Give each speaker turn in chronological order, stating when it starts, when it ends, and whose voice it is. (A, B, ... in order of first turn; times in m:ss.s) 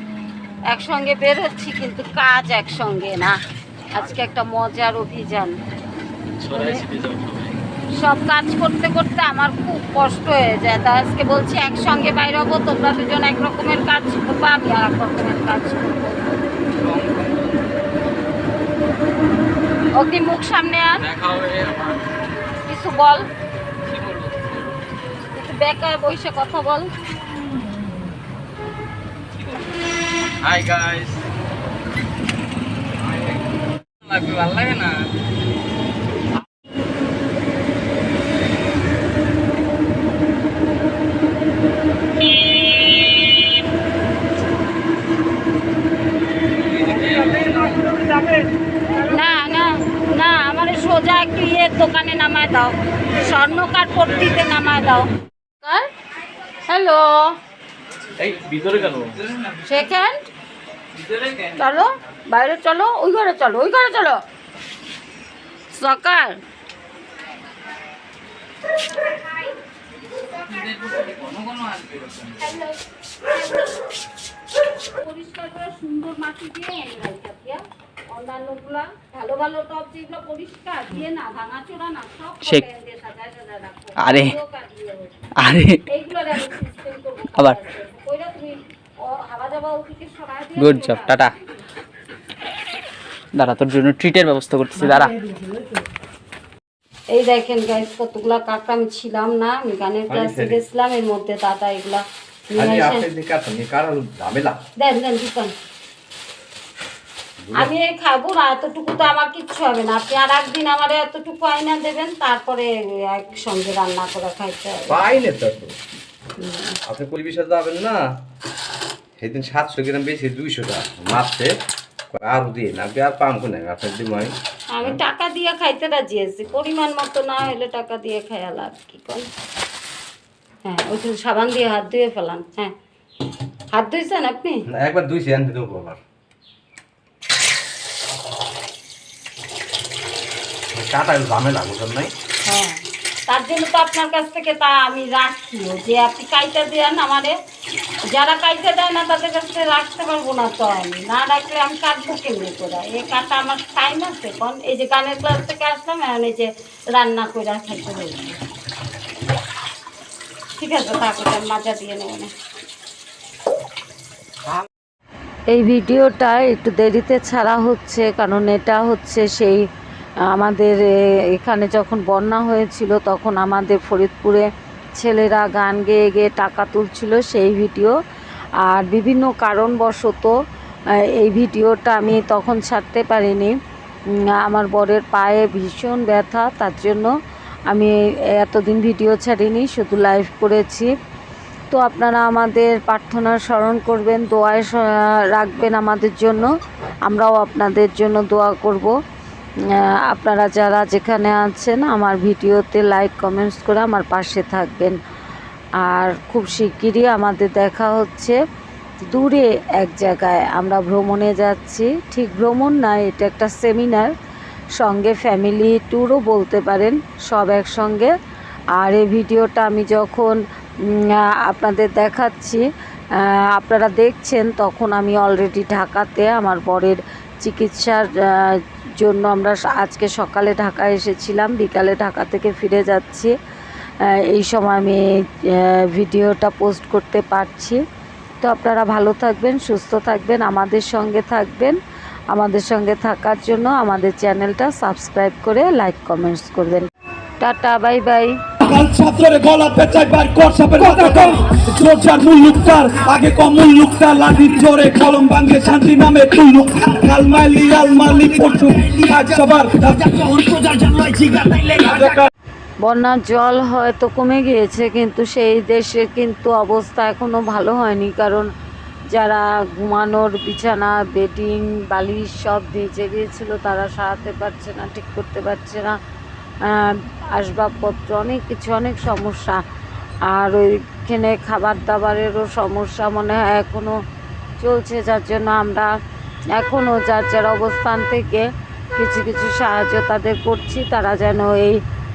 0:00.7-0:03.4 A
0:03.9-0:05.5 A
0:06.4-0:07.6 B
0:06.5-0:06.8 A
0:07.9-0:16.4 A
0:16.8-0:17.6 B
0:19.9-0:21.0 A
0:21.0-0:22.0 B
0:22.6-0:23.2 A
0:23.9-0:24.6 B
0:25.3-0:26.9 A
0:30.4-0:31.2 B
0:34.0-0:35.0 B
0:46.9-0:47.7 B
0:49.0-0:55.1 A
0:55.6-0:55.9 A
0:56.7-0:57.4 A
0:58.2-0:59.1 B
0:59.6-1:00.2 A
1:01.4-1:04.2 A
1:05.7-1:06.4 A
1:10.6-1:12.4 B
1:12.4-1:12.8 A
1:13.3-1:13.7 A
1:14.9-1:25.2 A
1:24.0-1:24.4 B
1:25.4-1:25.8 B
1:25.9-1:31.4 A
1:30.6-1:31.3 B
1:33.3-1:35.2 B
1:35.0-1:35.4 C
1:37.1-1:43.0 A
1:40.1-1:40.6 D
1:42.5-1:44.6 D
1:44.8-1:45.5 A
1:47.4-1:47.7 D
1:47.5-1:55.0 A
1:54.9-1:55.7 D
1:56.4-1:56.8 A
1:56.8-1:58.0 D
1:59.2-2:01.5 D
2:02.1-2:05.0 D
2:04.7-2:09.3 A
2:10.6-2:12.7 A
2:13.7-2:14.6 A
2:14.7-2:16.0 D
2:20.8-2:22.1 D
2:22.4-2:27.4 A
2:28.1-2:38.4 A
2:40.6-2:42.3 A
2:45.5-2:49.6 A
2:50.3-2:58.0 A
2:58.6-3:00.3 A
3:01.0-3:03.5 A
3:04.1-3:07.1 A
3:07.7-3:10.9 A
3:11.7-3:16.5 A
3:17.0-3:19.0 A
3:19.7-3:25.0 A
3:25.8-3:28.4 A
3:29.1-3:34.1 A
3:34.8-3:38.1 A
3:38.8-3:42.6 A
3:43.2-3:53.3 A
3:54.1-3:57.8 A
3:58.4-4:01.8 A
4:02.3-4:06.9 A
4:07.4-4:08.3 A
4:10.6-4:11.4 C
4:10.8-4:11.8 D
4:13.9-4:15.7 C
4:16.9-4:22.3 C
4:18.8-4:19.3 D
4:21.9-4:22.3 D
4:22.8-4:28.5 A
4:29.1-4:36.0 A
4:36.6-4:39.6 A
4:40.3-4:43.9 A
4:44.6-4:45.9 A
4:46.5-4:51.8 A